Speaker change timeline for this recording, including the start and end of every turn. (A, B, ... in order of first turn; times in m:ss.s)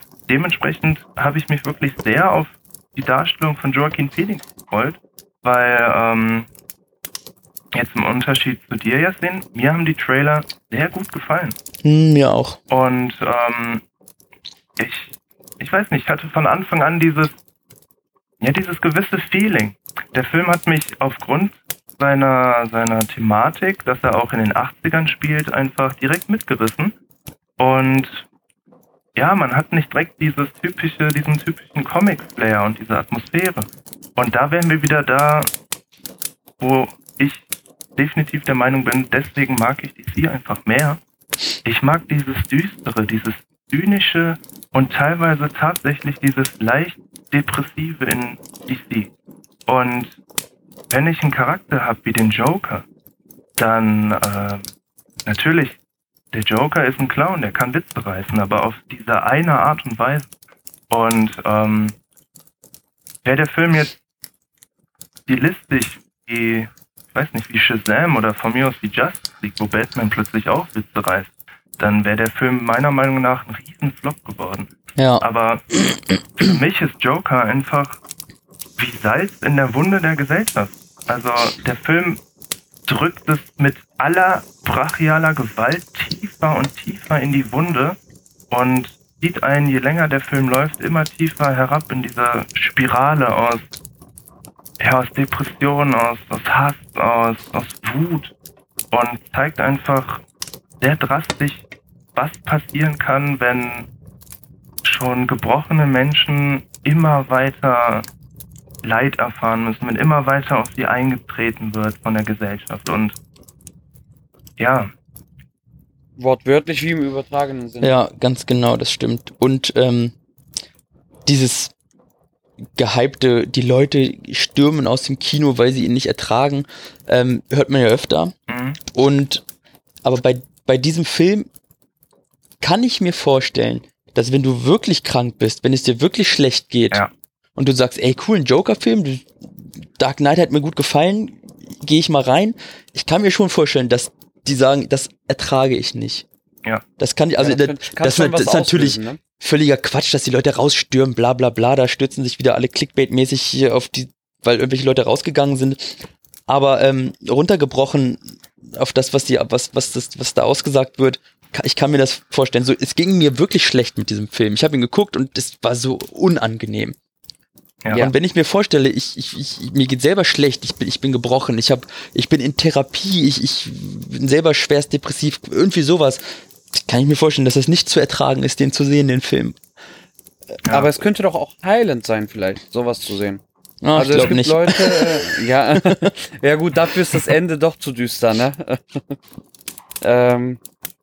0:00.3-0:06.5 A
0:07.7-0:11.6 A
0:11.8-0:12.6 B
0:12.7-0:13.8 A
0:14.8-0:17.3 A
0:18.4-0:26.9 A
0:27.6-0:28.2 A
0:29.1-0:35.5 A
0:36.6-0:37.4 A
0:38.0-0:41.0 A
0:41.6-0:49.1 A
0:49.7-0:50.2 A
0:50.9-0:52.9 A
0:53.6-0:54.6 A
0:55.3-0:55.8 A
0:56.3-1:00.3 A
1:00.9-1:02.0 A
1:03.2-1:04.0 A
1:05.3-1:15.7 A
1:15.0-1:15.2 B
1:16.4-1:18.0 A
1:18.8-1:22.2 A
1:22.9-1:28.0 A
1:28.5-1:33.6 A
1:34.8-1:38.3 A
1:38.9-1:40.2 A
1:40.8-1:43.9 A
1:44.8-1:48.0 A
1:48.8-1:53.2 A
1:54.6-1:54.9 A
1:56.2-1:58.0 C
1:57.8-2:00.1 B
2:01.3-2:01.7 B
2:02.8-2:08.3 B
2:08.5-2:08.8 A
2:08.9-2:09.4 B
2:10.0-2:11.5 B
2:12.6-2:17.0 B
2:17.6-2:26.3 B
2:27.0-2:47.0 B
2:27.4-2:29.2 C
2:47.9-2:59.6 B
3:00.6-3:00.9 A
3:00.7-3:03.4 C
3:03.8-3:06.0 B
3:04.0-3:09.1 C
3:10.0-3:10.6 C